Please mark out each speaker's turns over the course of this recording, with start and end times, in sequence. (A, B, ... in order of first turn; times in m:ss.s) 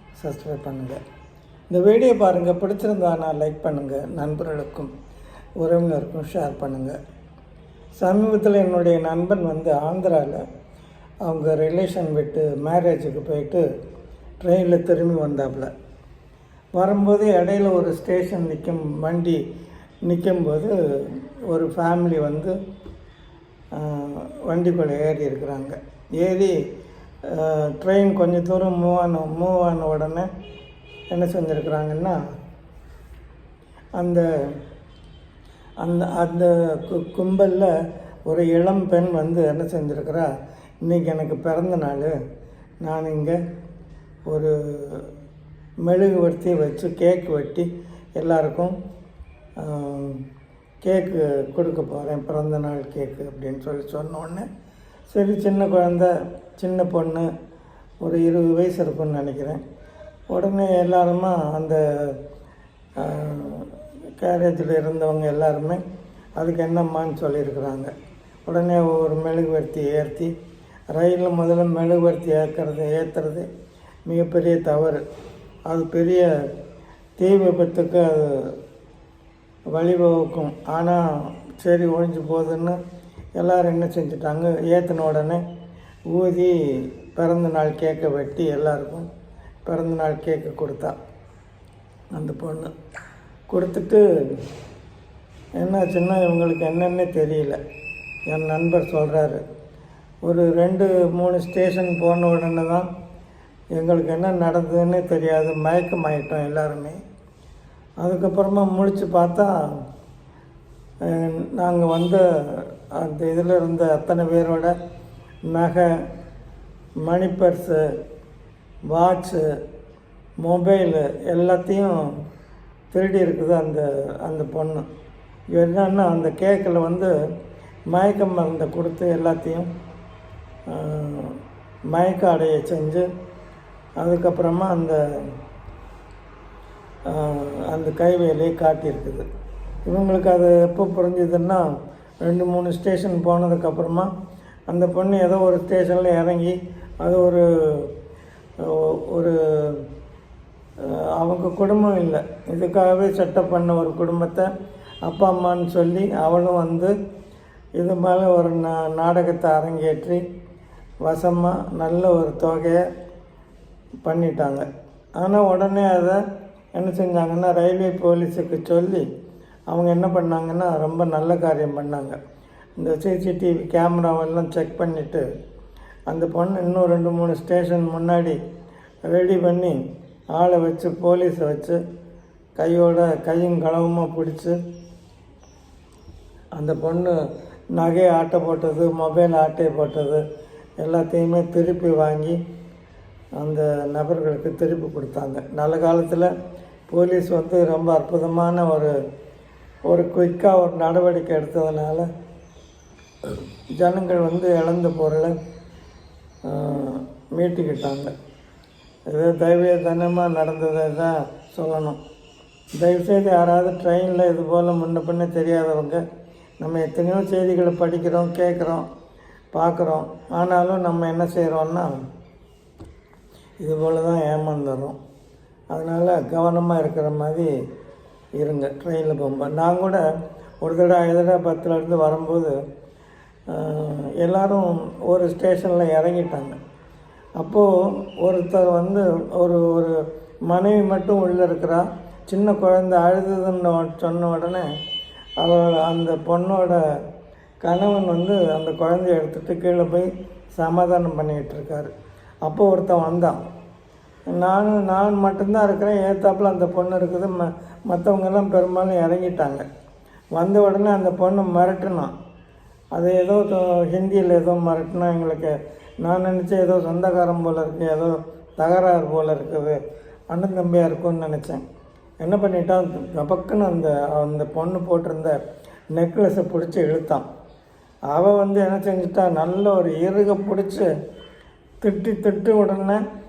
0:00.2-0:01.0 A
0:01.7-0:04.9 A
0:05.6-0:07.0 A
0:08.0-0:10.4 A
0:11.2-0:13.6 A
0:14.4-0:15.7 A
0:16.7-0:19.4 A
0:20.0-0:22.6 A
0:23.7-0:26.6 A
0:27.3-0:30.3 A
0:31.1-0:32.3 A
0:34.0-0:34.3 A
0:35.8-0:37.7 A
0:38.3-0:40.3 A
0:40.8-0:42.1 A
0:42.8-0:43.4 A
0:44.3-0:45.1 A
0:45.8-0:48.8 A
0:49.6-0:50.2 A
0:50.8-0:54.5 A
0:55.1-0:57.3 A
0:58.0-0:59.6 A
1:00.3-1:02.2 A
1:03.0-1:05.8 A
1:06.4-1:07.9 A
1:08.5-1:10.3 A
1:10.9-1:13.5 A
1:14.1-1:15.0 A
1:15.7-1:16.3 A
1:17.2-1:18.6 A
1:19.7-1:21.0 A
1:21.6-1:22.8 A
1:23.4-1:25.4 A
1:26.1-1:29.1 A
1:29.6-1:31.0 A
1:32.1-1:32.7 A
1:33.5-1:34.4 A
1:35.6-1:37.6 A
1:38.3-1:39.4 A
1:40.2-1:42.9 A
1:43.7-1:47.0 A
1:48.0-1:49.6 A
1:51.0-1:54.8 A
1:55.5-1:55.9 A
1:57.0-1:57.9 A
1:58.9-1:59.4 A
2:00.4-2:02.1 A
2:02.9-2:04.9 A
2:05.5-2:07.1 A
2:07.9-2:09.7 A
2:10.7-2:11.4 A
2:11.9-2:13.1 A
2:14.0-2:15.0 A
2:17.1-2:19.2 A
2:19.9-2:21.6 A
2:22.2-2:24.1 A
2:24.7-2:27.9 A
2:28.6-2:29.9 A
2:30.8-2:34.5 A
2:35.1-2:36.9 A
2:37.8-2:40.2 A
2:41.0-2:42.8 A
2:44.0-2:44.7 A
2:45.2-2:46.2 A
2:46.8-2:49.0 A
2:49.7-2:52.2 A
2:52.8-2:55.2 A
2:56.1-2:58.4 A
2:59.1-2:59.8 A
3:00.3-3:01.8 A
3:02.6-3:04.6 A
3:06.6-3:07.2 A
3:07.7-3:10.2 A
3:10.8-3:12.4 A
3:13.4-3:16.3 A
3:16.9-3:18.9 A
3:19.9-3:22.1 A
3:23.2-3:25.3 A
3:26.4-3:28.1 A
3:29.1-3:32.0 A
3:32.8-3:36.0 A
3:36.6-3:38.9 A
3:39.5-3:41.9 A
3:43.6-3:45.0 A
3:45.7-3:47.5 A
3:48.4-3:50.0 A
3:50.6-3:52.6 A
3:53.5-3:56.6 A
3:57.4-4:00.0 A
4:00.5-4:04.7 A
4:05.4-4:06.8 A
4:07.6-4:11.9 A
4:12.4-4:13.4 A
4:14.3-4:19.6 A
4:20.3-4:22.1 A
4:22.9-4:29.8 A
4:30.3-4:31.6 A
4:32.2-4:35.4 A
4:35.9-4:37.2 A
4:38.1-4:40.9 A
4:41.8-4:43.0 A